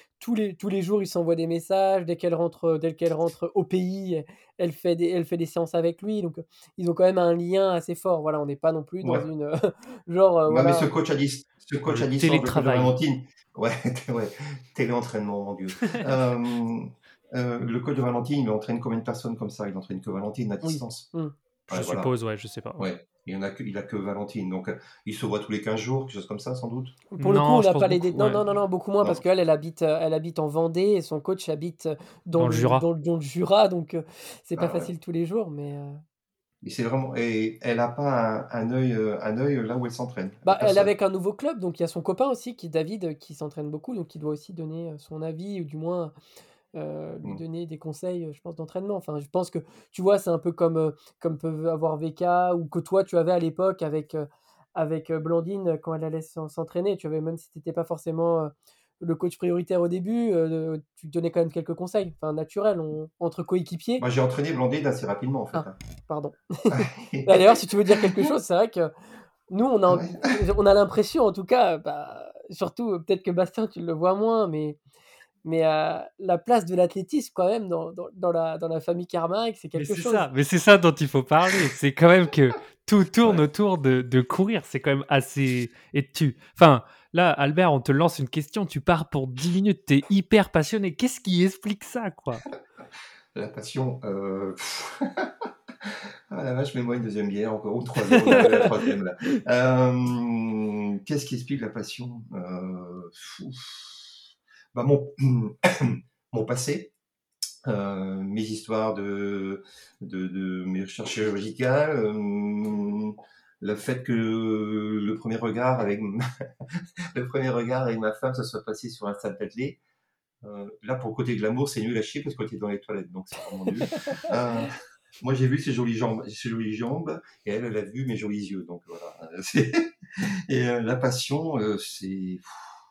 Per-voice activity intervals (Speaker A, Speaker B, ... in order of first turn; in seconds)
Speaker A: 0.2-10.9, 20.6-21.3, 27.1-36.0, 40.4-46.1, 46.7-64.0, 65.5-68.9, 69.5-74.8, 75.4-80.3
Speaker B: 9.0-9.3, 10.5-21.1, 21.7-22.1, 22.8-27.0, 34.5-34.9, 36.6-40.9, 64.0-65.8, 66.7-68.0, 69.9-70.3, 93.3-104.1, 104.7-106.9, 107.6-119.8, 120.4-132.7
Speaker C: 11.8-12.9, 15.8-16.1, 21.7-22.9, 27.2-28.4, 32.4-32.8, 79.7-92.5